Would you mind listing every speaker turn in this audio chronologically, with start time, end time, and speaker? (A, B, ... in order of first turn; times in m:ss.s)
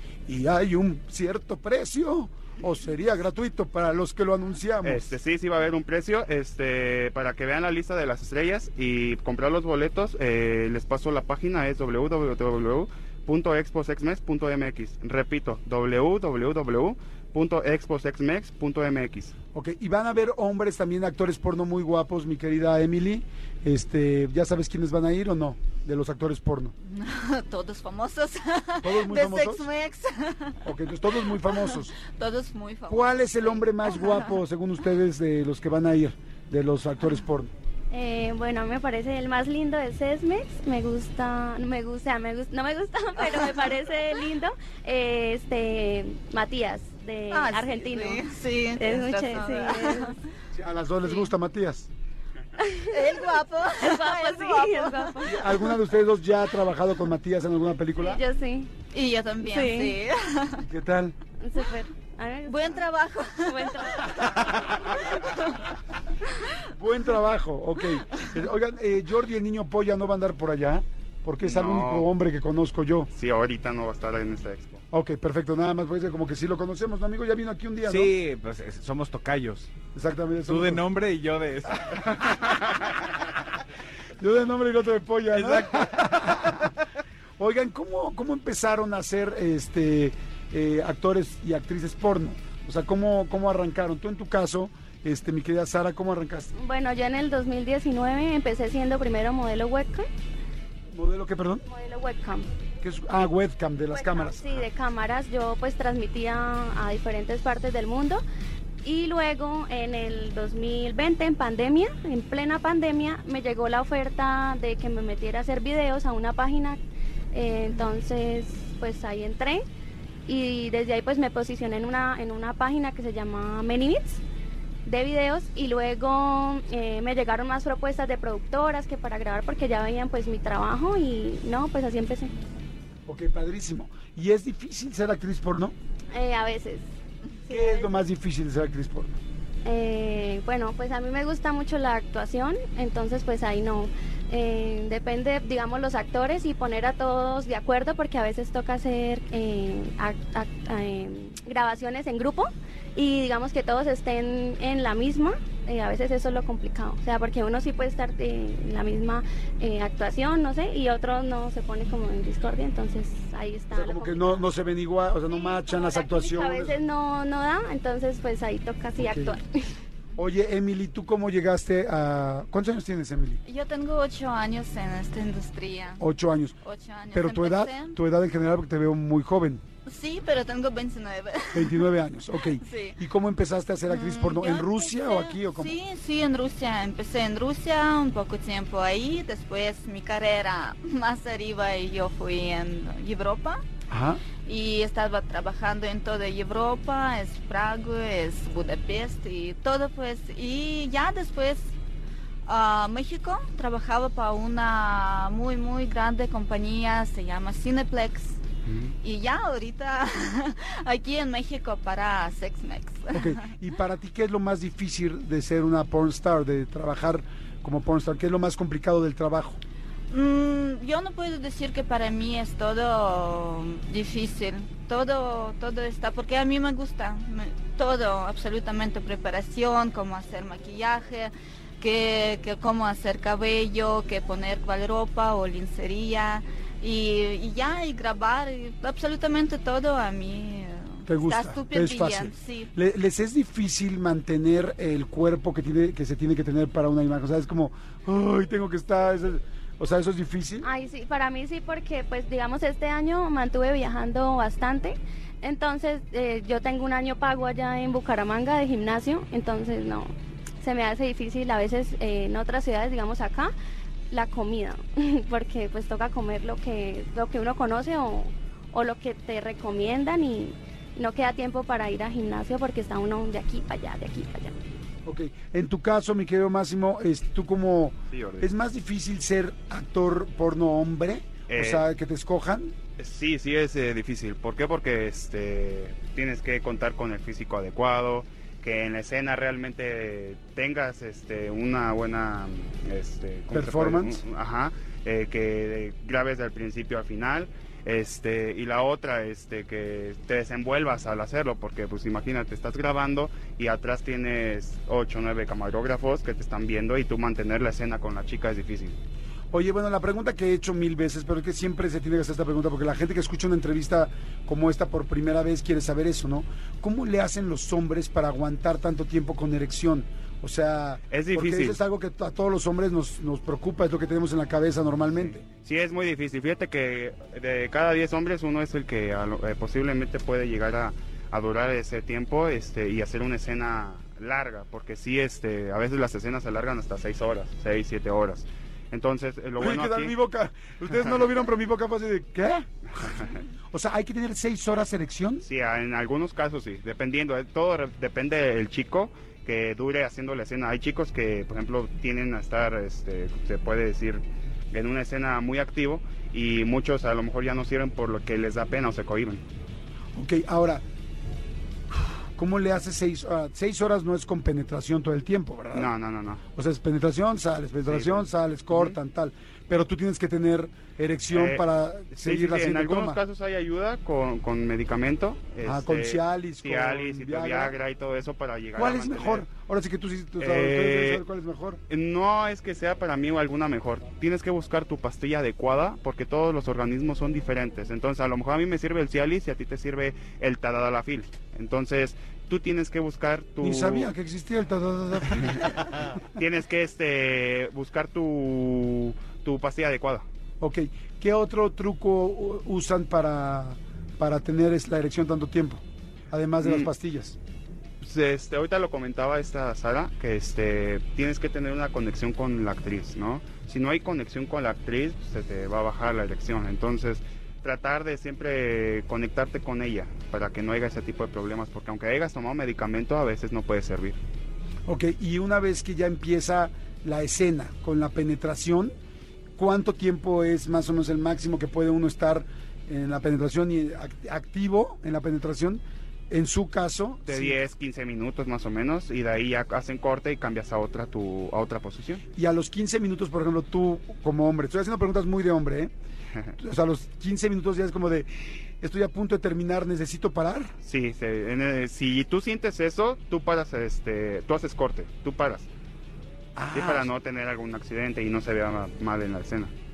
0:00.2-0:05.2 A
0:04.8-0:19.3 B
0:19.5-0:26.7 A
0:26.8-0:30.6 C
0:28.8-0:29.7 A
0:30.6-0:31.9 A
0:31.4-0:34.3 C
0:32.9-0:37.5 A
0:37.9-0:50.2 D
0:43.2-0:43.6 C
0:47.3-0:50.2 C
0:50.5-0:51.9 A
0:52.6-0:55.7 D
0:52.9-0:55.5 C
0:55.2-0:58.2 A
0:58.0-0:58.7 D
0:58.9-1:00.6 C
0:59.4-1:00.0 D
1:00.6-1:01.2 A
1:01.4-1:02.8 D
1:02.5-1:05.6 C
1:03.4-1:04.3 D
1:06.7-1:13.1 A
1:11.4-1:12.1 B
1:13.1-1:14.8 B
1:14.9-1:18.1 A
1:17.8-1:19.7 E
1:19.9-1:20.8 A
1:20.5-1:22.6 E
1:24.2-1:26.7 A
1:25.3-1:26.6 E
1:27.4-1:36.5 A
1:36.5-1:40.1 D
1:40.9-1:41.6 A
1:41.6-1:42.5 D
1:42.8-1:44.6 A
1:43.9-1:48.2 D
1:48.8-1:56.8 D
1:57.3-1:59.6 D
2:00.2-2:04.2 D
2:04.8-2:12.3 D
2:13.0-2:15.7 A
2:16.1-2:16.9 D
2:17.5-2:17.9 D
2:17.5-2:19.2 A
2:19.6-2:44.4 D
2:43.7-2:46.8 A
2:45.3-2:49.7 D
2:49.0-2:49.3 A
2:50.2-2:53.4 A
2:53.4-2:56.0 C
2:56.0-2:56.6 A
2:56.6-2:58.0 C
2:57.1-2:59.6 A
2:59.8-3:01.9 C
3:01.5-3:05.7 A
3:02.4-3:03.0 C
3:03.9-3:13.6 C
3:13.9-3:14.2 A
3:14.4-3:21.7 C
3:22.4-3:28.4 C
3:28.6-3:28.9 A
3:29.0-3:33.4 C
3:33.1-3:39.6 A
3:40.1-4:02.7 C
4:01.0-4:10.7 A
4:10.6-4:23.5 D
4:24.1-4:34.5 D
4:35.0-4:42.7 A
4:38.1-4:38.5 B
4:41.5-4:41.8 B
4:43.0-5:09.0 B
4:53.5-4:54.2 A
5:09.5-5:25.4 A
5:21.1-5:21.8 B
5:25.2-5:40.1 B
5:39.6-5:45.4 A
5:45.4-5:59.4 B
6:00.1-6:00.8 A
6:02.4-6:05.9 A
6:05.7-6:06.4 B
6:06.6-6:13.2 A
6:07.9-6:09.0 B
6:11.3-6:19.5 B
6:15.6-6:17.7 A
6:18.7-6:21.8 A
6:20.4-6:21.2 B
6:21.9-6:34.1 B
6:33.6-6:35.9 A
6:36.3-6:40.2 B
6:40.6-6:47.4 A
6:46.6-6:46.9 B
6:48.0-7:04.2 B
7:04.9-7:08.9 A
7:09.6-7:17.6 A
7:17.3-7:22.2 B
7:22.4-7:25.9 A
7:26.6-7:30.7 A
7:30.8-7:35.7 B
7:36.6-7:37.1 A
7:36.7-7:39.7 B